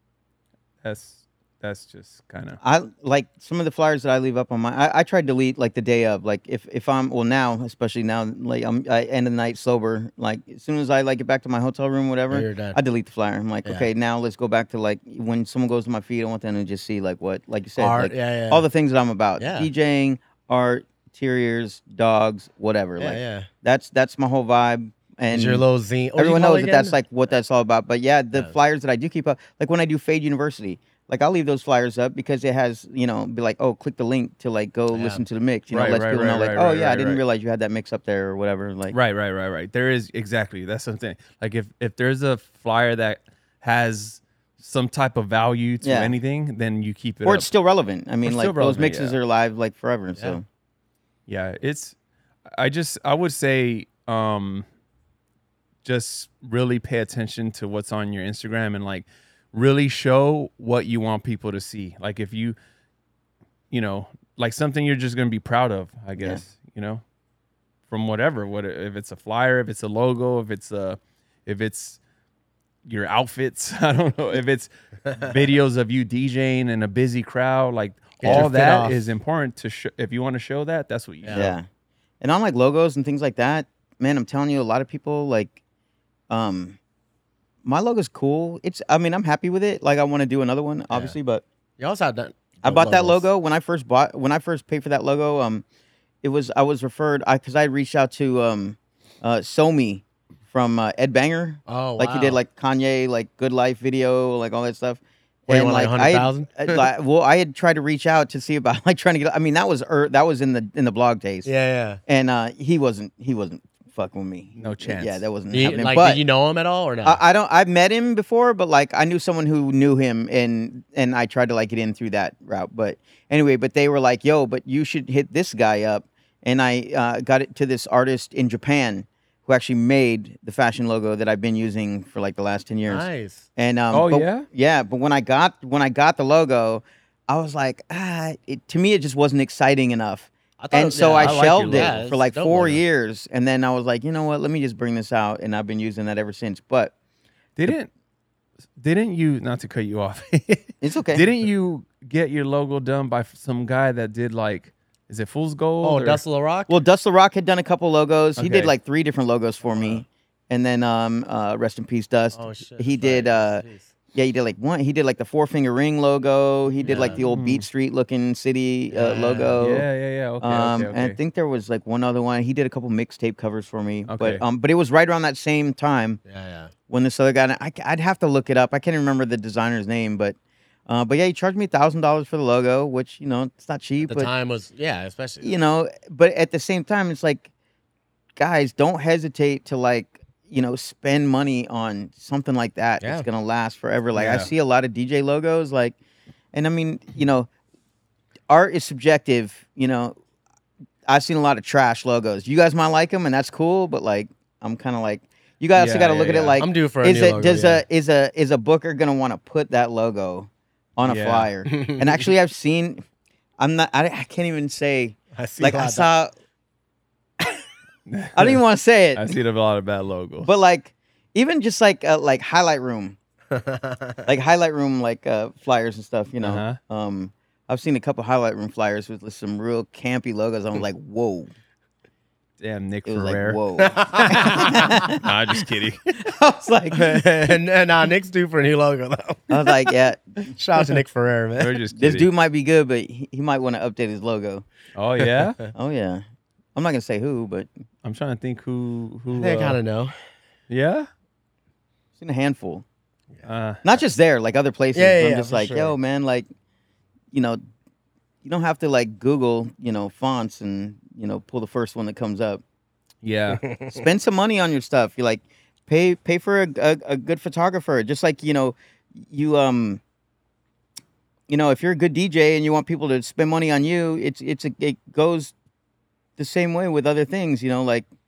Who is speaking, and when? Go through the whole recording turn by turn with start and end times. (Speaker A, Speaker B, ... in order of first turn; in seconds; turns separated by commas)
Speaker A: 0.8-2.6, Speaker B: 2.6-25.6, Speaker C: 12.3-12.8, Speaker C: 17.8-18.7, Speaker C: 19.4-19.7, Speaker C: 23.0-23.5, Speaker C: 25.3-27.0, Speaker B: 26.2-39.0, Speaker C: 34.9-35.2, Speaker A: 35.7-37.2, Speaker A: 38.9-47.5, Speaker B: 45.8-46.1, Speaker B: 47.2-50.4, Speaker A: 48.2-49.2, Speaker A: 51.3-52.0, Speaker A: 52.5-54.6, Speaker A: 55.9-62.6, Speaker A: 63.7-67.0, Speaker A: 67.9-72.0, Speaker A: 72.8-81.4, Speaker C: 78.2-79.1, Speaker C: 81.2-81.6, Speaker B: 81.3-81.7, Speaker B: 82.2-85.6, Speaker B: 86.3-86.8, Speaker B: 87.6-91.4, Speaker C: 91.8-93.3, Speaker B: 92.6-95.6, Speaker B: 96.2-111.5, Speaker C: 101.7-102.4, Speaker C: 105.5-106.9, Speaker C: 111.5-112.0, Speaker B: 112.1-116.2, Speaker A: 114.6-115.2, Speaker C: 115.5-117.2, Speaker B: 117.0-146.9, Speaker C: 132.9-133.4, Speaker A: 133.9-134.5, Speaker C: 140.6-142.8, Speaker A: 141.1-141.9, Speaker A: 147.6-147.9, Speaker A: 148.8-156.2, Speaker B: 150.8-151.3, Speaker C: 155.8-156.8, Speaker B: 156.7-169.9, Speaker C: 158.4-158.7, Speaker C: 159.8-160.0, Speaker C: 162.3-163.9, Speaker C: 166.8-167.2, Speaker A: 166.9-167.7, Speaker C: 168.9-169.6, Speaker A: 169.6-171.2, Speaker B: 170.4-176.2, Speaker A: 174.1-174.4, Speaker C: 176.3-176.7, Speaker B: 176.9-180.4, Speaker B: 180.9-184.3, Speaker C: 184.1-185.6, Speaker B: 185.4-187.5, Speaker B: 188.4-195.9, Speaker C: 193.0-193.3, Speaker A: 194.2-194.5, Speaker B: 196.5-197.5, Speaker B: 198.5-200.2, Speaker B: 201.1-213.0, Speaker A: 205.8-206.6, Speaker C: 206.6-207.8, Speaker A: 211.0-211.5, Speaker C: 211.7-212.1, Speaker B: 213.6-216.3, Speaker C: 215.3-216.1, Speaker A: 218.1-218.6, Speaker B: 218.3-219.3, Speaker A: 219.2-220.5, Speaker B: 220.4-223.2, Speaker C: 223.5-224.3, Speaker B: 224.3-231.5, Speaker A: 226.4-226.8, Speaker A: 232.6-236.1, Speaker B: 233.1-235.2, Speaker C: 233.8-234.9, Speaker B: 236.1-237.6, Speaker C: 236.9-239.7, Speaker B: 239.5-240.5, Speaker C: 240.5-241.8, Speaker A: 241.6-242.3, Speaker B: 241.9-244.7, Speaker A: 244.9-245.6, Speaker B: 245.7-246.2, Speaker B: 246.8-247.7, Speaker A: 248.0-249.8, Speaker C: 249.3-250.2, Speaker A: 250.7-251.1, Speaker B: 252.2-252.8, Speaker A: 253.4-253.8, Speaker B: 253.8-256.5, Speaker C: 254.9-255.9, Speaker B: 257.3-257.6, Speaker B: 258.4-262.6, Speaker A: 263.2-263.6, Speaker C: 263.6-264.0, Speaker B: 263.9-270.0, Speaker B: 271.5-275.5, Speaker B: 276.4-278.1